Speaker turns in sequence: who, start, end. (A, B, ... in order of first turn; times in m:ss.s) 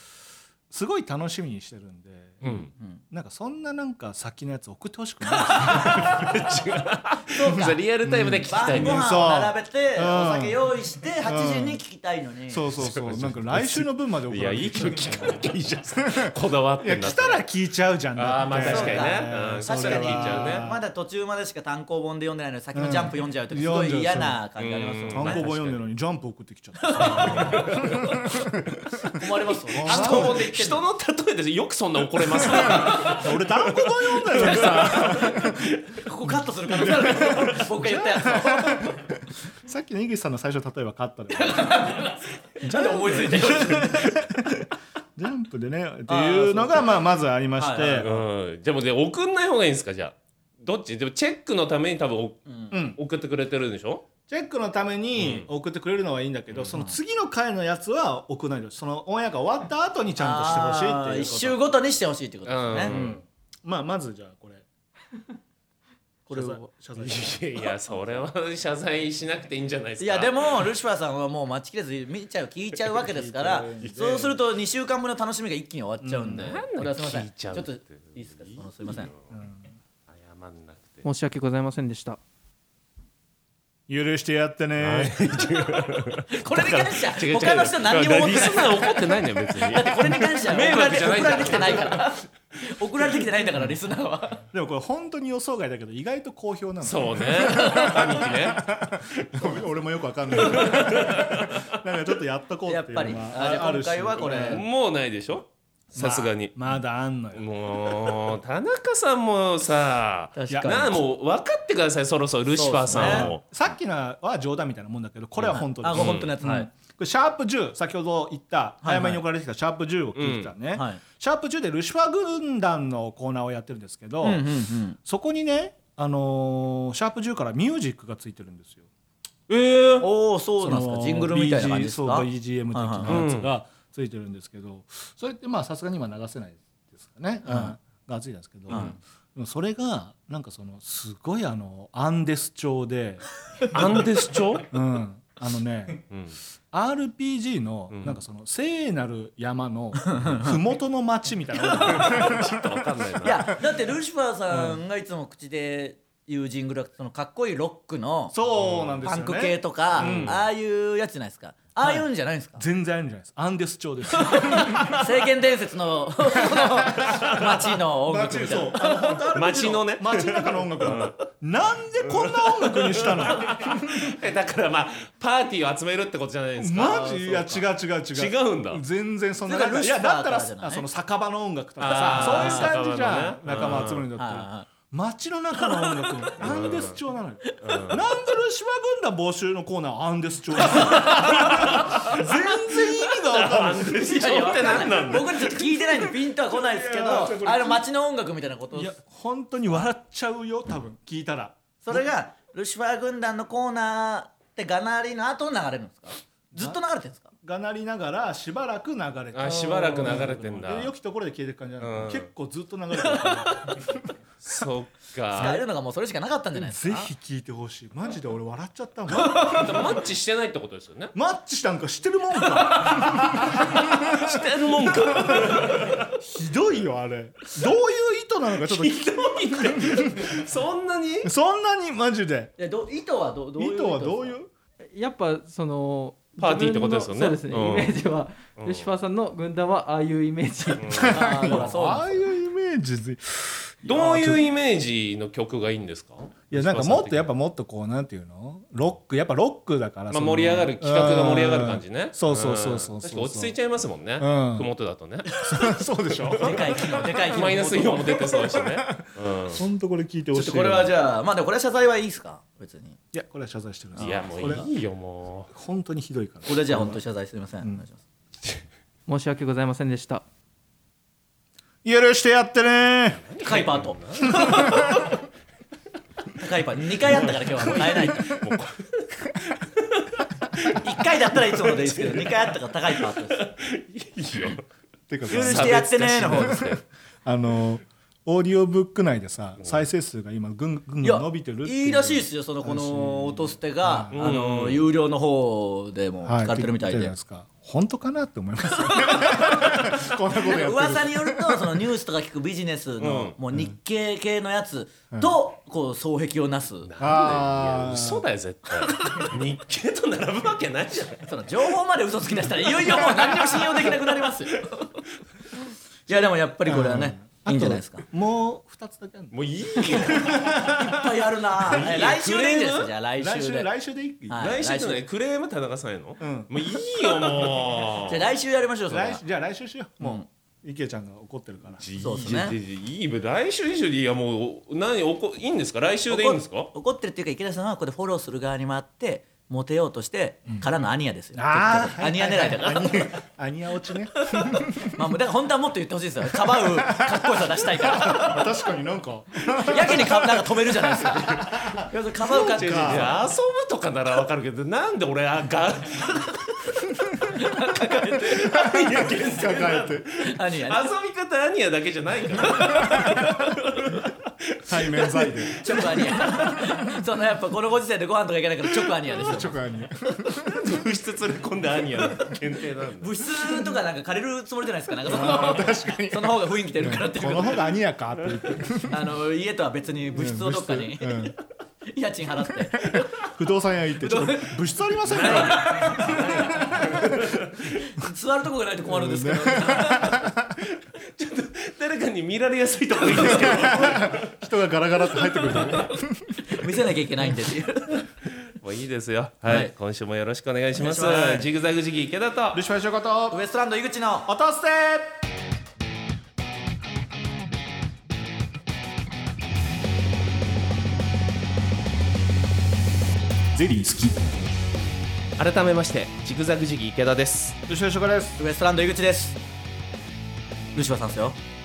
0:00.7-0:02.5 A
0:02.4-0:02.7 B
0:02.4-0:03.0 C
0:03.1-0:06.2 A
0:05.3-0:06.4 C
0:05.6-0:09.1 B
0:07.3-0:07.8 C
0:07.5-0:10.6 A
0:08.5-0:12.7 C
0:11.2-0:11.8 A
0:12.5-0:15.4 A
0:12.8-0:17.4 B
0:16.0-0:20.8 A
0:18.2-0:20.7 B
0:18.5-0:25.5 C
0:22.7-0:24.4 A
0:24.6-0:25.8 B
0:25.1-0:28.8 A
0:26.8-0:28.4 C
0:27.2-0:27.9 B
0:29.0-0:30.8 C
0:29.7-0:30.5 A
0:29.8-0:33.5 B
0:32.4-0:33.3 C
0:32.5-0:35.7 A
0:34.1-0:36.0 B
0:34.3-0:35.4 C
0:36.0-0:39.0 C
0:36.2-0:42.0 A
0:41.3-0:44.2 C
0:42.6-0:48.1 A
0:46.1-0:47.0 C
0:47.6-0:48.2 C
0:48.0-0:54.1 B
0:52.5-0:52.8 C
0:52.7-0:53.0 A
0:54.3-1:01.6 A
0:55.2-0:55.5 B
1:00.2-1:02.9 C
1:02.5-1:03.2 B
1:02.8-1:04.6 A
1:06.3-1:07.5 A
1:06.3-1:06.7 C
1:07.0-1:10.7 B
1:10.0-1:19.1 C
1:13.0-1:14.4 A
1:16.0-1:16.6 A
1:16.4-1:19.2 B
1:19.3-1:19.7 A
1:20.1-1:21.0 B
1:21.0-1:22.2 D
1:23.9-1:25.5 A
1:24.8-1:32.2 B
1:26.3-1:34.4 C
1:34.5-1:44.6 A
1:36.8-1:39.5 B
1:37.5-1:38.1 C
1:40.4-1:41.7 B
1:42.7-1:44.6 C
1:44.4-1:46.6 B
1:45.9-1:47.4 A
1:47.3-1:53.4 B
1:50.4-1:51.0 C
1:50.5-1:51.0 A
1:52.5-1:53.3 C
1:52.9-2:04.5 A
1:55.4-1:56.4 B
1:55.5-1:56.7 C
1:58.8-1:59.2 C
2:00.2-2:00.5 B
2:00.7-2:01.0 C
2:04.2-2:05.0 C
2:05.0-2:08.9 A
2:10.0-2:13.3 C
2:10.6-2:23.3 A
2:13.1-2:13.5 B
2:17.4-2:17.8 C
2:18.7-2:19.0 B
2:18.7-2:19.0 C
2:23.7-2:24.7 B
2:24.7-2:26.0 A
2:26.1-2:26.4 B
2:26.7-2:32.9 A
2:27.9-2:28.2 B
2:30.0-2:30.6 C
2:31.6-2:32.4 C
2:31.9-2:33.6 B
2:33.2-2:38.4 C
2:34.5-2:34.8 A
2:38.3-2:40.4 A
2:38.6-2:39.0 B
2:39.0-2:42.6 C
2:39.9-2:40.4 B
2:42.6-2:45.1 A
2:44.1-2:49.3 C
2:46.4-2:47.3 A
2:47.0-2:47.5 B
2:48.0-2:54.2 A
2:49.3-2:51.2 B
2:52.0-2:58.8 B
2:56.6-3:14.6 A
2:59.4-3:00.8 C
3:01.8-3:04.1 B
3:01.9-3:02.8 C
3:04.2-3:04.7 C
3:05.6-3:06.3 C
3:06.4-3:07.0 B
3:07.5-3:07.8 C
3:07.6-3:08.0 B
3:10.6-3:11.9 C
3:11.1-3:16.0 B
3:14.0-3:19.0 C
3:16.5-3:17.8 A
3:18.7-3:22.1 A
3:21.8-3:27.3 C
3:26.6-3:26.8 A
3:27.4-3:34.1 A
3:29.3-3:30.9 B
3:31.8-3:32.3 B
3:33.1-3:33.8 C
3:34.4-3:35.6 B
3:35.3-3:37.1 C
3:36.6-3:40.0 A
3:39.2-3:41.1 B
3:39.2-3:39.8 C
3:41.1-3:50.4 A
3:42.6-3:43.6 C
3:43.4-3:46.1 B
3:44.9-3:46.0 C
3:48.6-3:51.3 B
3:51.2-3:52.5 A
3:52.6-3:54.4 C
3:53.6-3:54.5 A
3:54.9-4:01.6 D
3:56.4-3:58.0 B
3:58.6-3:58.9 B
4:00.8-4:01.3 B
4:00.9-4:04.4 A
4:01.1-4:02.2 C
4:03.8-4:07.3 B
4:04.0-4:04.3 C
4:06.5-4:13.6 A
4:10.1-4:15.4 B
4:14.2-4:14.7 A
4:15.3-4:15.8 C
4:15.4-4:16.9 A
4:16.3-4:19.6 B
4:16.3-4:18.6 C
4:18.5-4:21.0 A
4:20.3-4:23.0 C
4:23.1-4:24.7 A
4:24.0-4:24.7 C
4:24.0-4:25.5 B
4:25.5-4:27.0 A
4:26.5-4:28.0 C
4:29.1-4:30.2 D
4:31.8-4:33.2 A
4:33.2-4:35.1 B
4:33.4-4:35.1 C
4:34.4-4:34.8 A
4:36.4-4:38.4 C
4:37.0-4:44.7 B
4:40.8-4:43.5 C
4:45.1-4:54.7 A
4:45.3-4:46.7 C
4:45.3-4:46.8 B
4:51.0-4:57.1 C
4:54.1-4:54.9 B
4:56.2-5:01.8 A
4:59.0-4:59.8 C
5:00.4-5:06.9 C
5:03.0-5:03.4 B
5:06.8-5:11.4 B
5:07.0-5:08.3 A
5:08.9-5:09.3 C
5:11.3-5:15.0 C
5:13.0-5:13.9 B
5:16.1-5:18.1 C
5:16.7-5:21.1 A
5:19.3-5:20.4 B
5:19.8-5:23.7 C
5:21.7-5:22.9 B
5:23.2-5:24.4 A
5:24.3-5:25.0 C
5:24.4-5:28.3 B
5:26.2-5:26.5 A
5:28.0-5:29.2 C
5:28.9-5:31.8 A
5:30.0-5:30.3 C
5:31.8-5:36.7 B
5:32.0-5:32.6 C
5:36.1-5:43.1 C
5:41.3-5:45.0 A
5:44.2-5:48.5 C
5:46.4-5:53.3 A
5:49.5-5:53.2 C
5:52.4-5:56.7 B
5:57.3-5:58.7 C
5:58.2-6:00.1 A
5:58.2-6:06.4 B
6:00.2-6:00.9 C
6:02.4-6:03.5 C
6:02.9-6:03.2 A
6:04.7-6:06.8 A
6:05.6-6:09.6 C
6:09.1-6:10.8 A
6:10.4-6:13.3 B
6:13.0-6:17.7 C
6:15.1-6:19.1 A
6:18.9-6:21.4 C
6:20.1-6:21.4 A
6:21.9-6:23.3 C
6:22.7-6:27.3 A
6:24.0-6:27.1 C
6:25.1-6:27.7 B
6:27.7-6:30.3 C
6:28.9-6:30.6 A
6:30.6-6:34.3 B
6:33.1-6:36.5 A
6:33.2-6:33.8 C
6:35.5-6:38.0 C
6:38.2-6:42.6 B
6:39.4-6:39.7 C
6:40.8-6:41.5 C
6:42.5-6:43.4 A
6:43.3-6:44.3 C
6:44.3-6:45.2 A
6:53.5-6:54.3 A
6:55.4-6:57.6 B
6:57.7-6:58.4 A
6:58.4-6:59.4 C
7:00.8-7:01.4 C